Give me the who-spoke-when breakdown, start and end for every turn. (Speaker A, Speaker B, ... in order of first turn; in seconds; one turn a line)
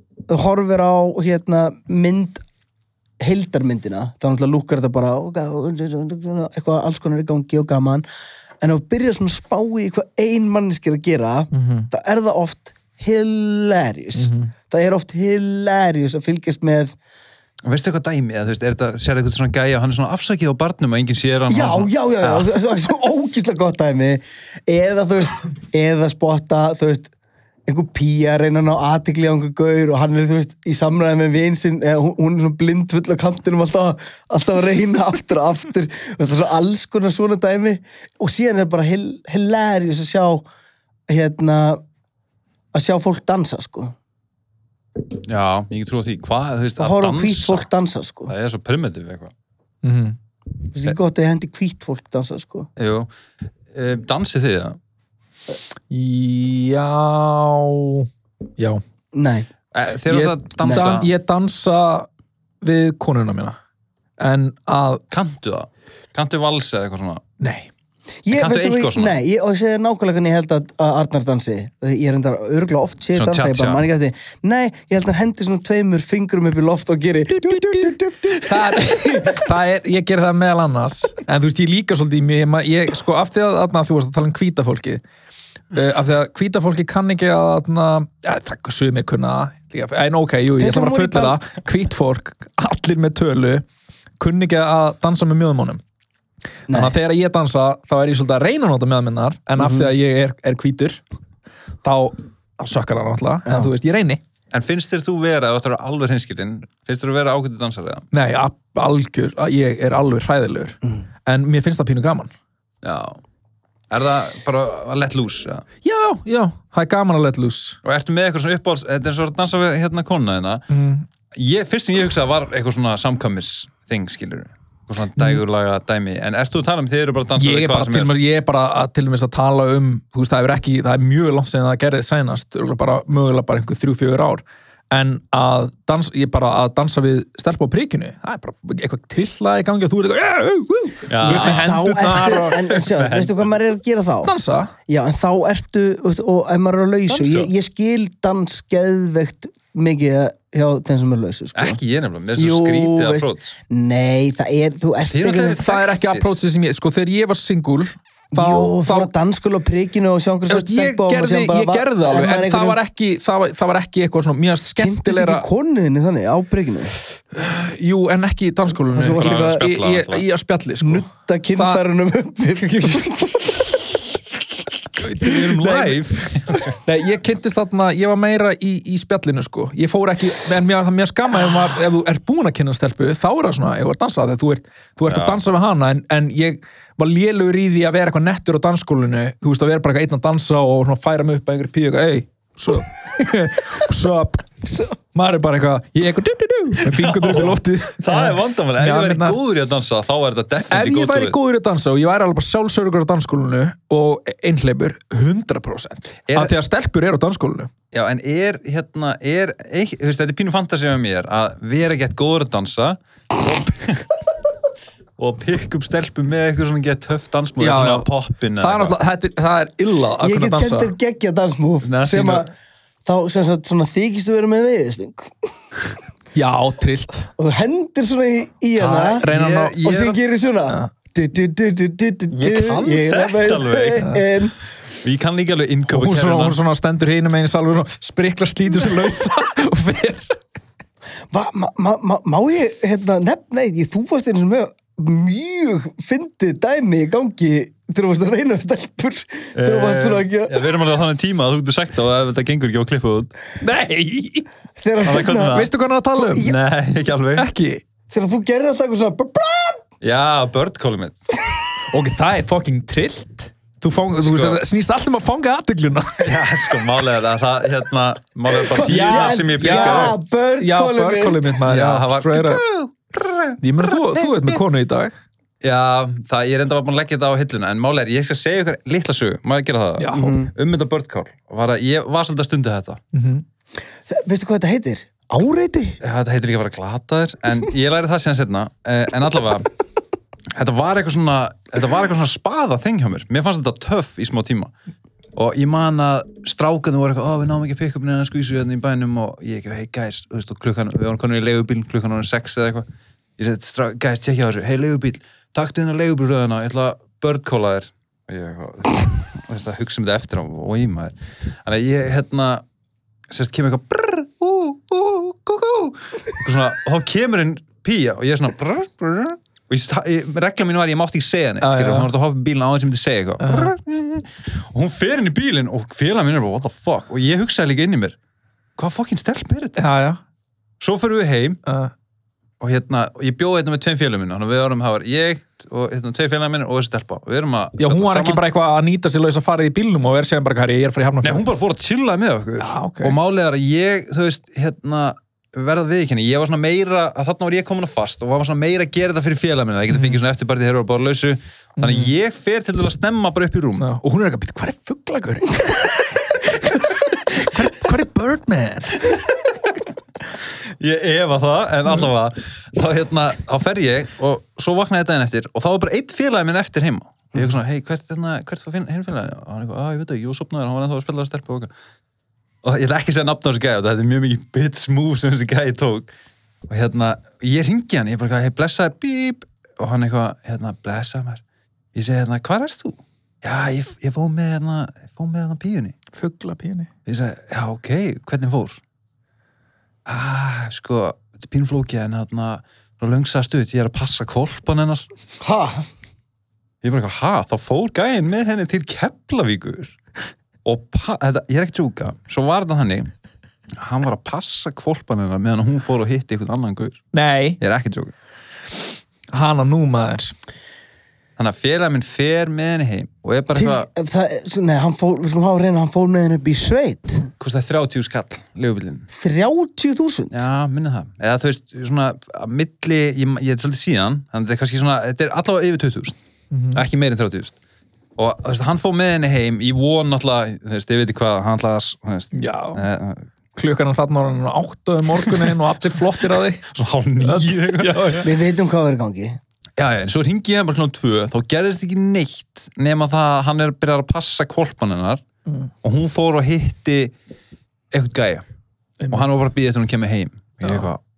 Speaker A: 0.3-2.4
Speaker A: 3.2-8.0
Speaker A: 8.6-16.9
Speaker B: 11.5-11.9
Speaker B: 14.2-14.5
Speaker C: 17.6-22.5
Speaker A: 21.5-27.1
Speaker A: 27.7-40.4
Speaker A: 41.1-41.8
Speaker A: 42.7-43.9
Speaker C: 45.2-47.7
Speaker A: 46.8-48.3
Speaker C: 48.3-49.3
Speaker B: 49.8-50.2
Speaker A: 50.7-52.7
Speaker C: 52.8-53.1
Speaker C: 53.7-54.8
Speaker B: 55.9-58.8
Speaker A: 59.1-59.5
Speaker C: 59.7-61.1
Speaker B: 60.1-62.1
Speaker A: 60.6-61.0
Speaker B: 62.6-63.5
Speaker B: 64.2-65.0
Speaker C: 65.1-67.2
Speaker B: 67.4-67.7
Speaker A: 68.2-79.3
Speaker C: 68.3-69.2
Speaker C: 73.2-73.8
Speaker B: 77.4-85.0
Speaker B: 85.7-93.6
Speaker A: 90.6-91.4
Speaker B: 94.2-95.8
Speaker A: 96.7-96.9
Speaker B: 96.7-101.0
Speaker A: 99.6-99.9
Speaker B: 101.8-104.2
Speaker C: 104.5-108.0
Speaker B: 108.1-112.3
Speaker C: 112.8-113.2
Speaker C: 113.9-115.6
Speaker B: 115.8-117.8
Speaker C: 117.8-120.7
Speaker B: 120.7-121.0
Speaker C: 121.3-128.1
Speaker B: 125.2-125.4
Speaker B: 127.4-142.6
Speaker C: 141.1-143.6
Speaker A: 141.2-144.3
Speaker B: 144.2-144.7
Speaker A: 144.9-151.8
Speaker C: 147.1-147.5
Speaker C: 151.5-153.6
Speaker A: 152.3-155.6
Speaker C: 155.1-156.4
Speaker B: 155.5-159.1
Speaker A: 158.3-162.8
Speaker B: 160.5-165.4
Speaker A: 164.8-166.9
Speaker B: 167.3-171.8
Speaker A: 168.9-169.6
Speaker C: 169.2-170.2
Speaker A: 170.8-173.7
Speaker B: 172.7-173.1
Speaker B: 175.0-199.4
Speaker C: 175.0-176.7
Speaker C: 185.1-185.4
Speaker C: 196.8-201.3
Speaker B: 200.7-207.7
Speaker C: 206.3-206.5
Speaker C: 207.9-214.1
Speaker C: 215.2-219.0
Speaker B: 217.6-220.9
Speaker A: 220.2-222.5
Speaker C: 221.8-222.5
Speaker A: 223.0-225.3
Speaker B: 226.3-227.3
Speaker A: 227.4-234.5
Speaker B: 228.8-229.8
Speaker C: 229.2-230.2
Speaker C: 232.3-234.1
Speaker C: 235.0-236.6
Speaker B: 235.9-240.4
Speaker A: 241.3-250.6
Speaker C: 249.6-253.3
Speaker B: 253.6-254.5
Speaker A: 254.8-255.7
Speaker C: 255.0-255.7
Speaker B: 255.5-256.5
Speaker A: 256.2-256.5
Speaker C: 256.3-257.5
Speaker B: 257.4-257.8
Speaker A: 258.1-259.8
Speaker C: 260.0-261.2
Speaker B: 261.9-266.4
Speaker C: 264.2-264.6
Speaker C: 266.2-270.2
Speaker B: 268.7-272.6
Speaker A: 268.8-271.6
Speaker C: 271.6-274.6
Speaker B: 273.6-275.1
Speaker C: 275.6-283.0
Speaker B: 280.0-280.4
Speaker A: 280.1-280.5
Speaker B: 283.1-283.4
Speaker A: 284.1-286.0
Speaker C: 286.0-289.7
Speaker C: 290.5-294.7
Speaker C: 295.3-302.9
Speaker C: 303.4-312.6
Speaker C: 313.3-328.2
Speaker B: 321.6-322.1
Speaker B: 323.4-323.7
Speaker C: 328.8-329.8
Speaker B: 329.8-330.2
Speaker C: 330.8-331.6
Speaker B: 331.7-331.9
Speaker C: 332.6-338.4
Speaker B: 337.8-341.4
Speaker C: 341.2-353.9
Speaker B: 342.6-343.1
Speaker B: 349.9-350.2
Speaker B: 351.8-352.1
Speaker B: 353.8-359.2
Speaker C: 360.7-371.7
Speaker C: 372.6-376.1
Speaker C: 376.7-381.4
Speaker C: 381.9-385.9
Speaker B: 386.1-386.9
Speaker C: 387.1-388.8
Speaker C: 390.1-395.1
Speaker A: 395.4-395.9
Speaker C: 396.8-400.0
Speaker C: 400.6-403.1
Speaker C: 403.7-407.0
Speaker B: 407.1-407.6
Speaker C: 407.6-408.1
Speaker B: 409.3-410.3
Speaker C: 411.4-413.9
Speaker A: 413.5-417.3
Speaker C: 417.4-419.1
Speaker A: 419.1-420.4
Speaker C: 420.3-426.2
Speaker B: 426.5-426.8
Speaker C: 426.7-427.6
Speaker C: 428.2-433.3
Speaker B: 432.3-432.8
Speaker B: 433.6-436.6
Speaker C: 435.1-435.6
Speaker C: 436.7-438.3
Speaker B: 437.2-438.3
Speaker A: 438.2-439.4
Speaker C: 439.8-445.2
Speaker C: 445.8-447.1
Speaker C: 447.9-448.4
Speaker B: 449.0-449.3
Speaker C: 449.1-451.0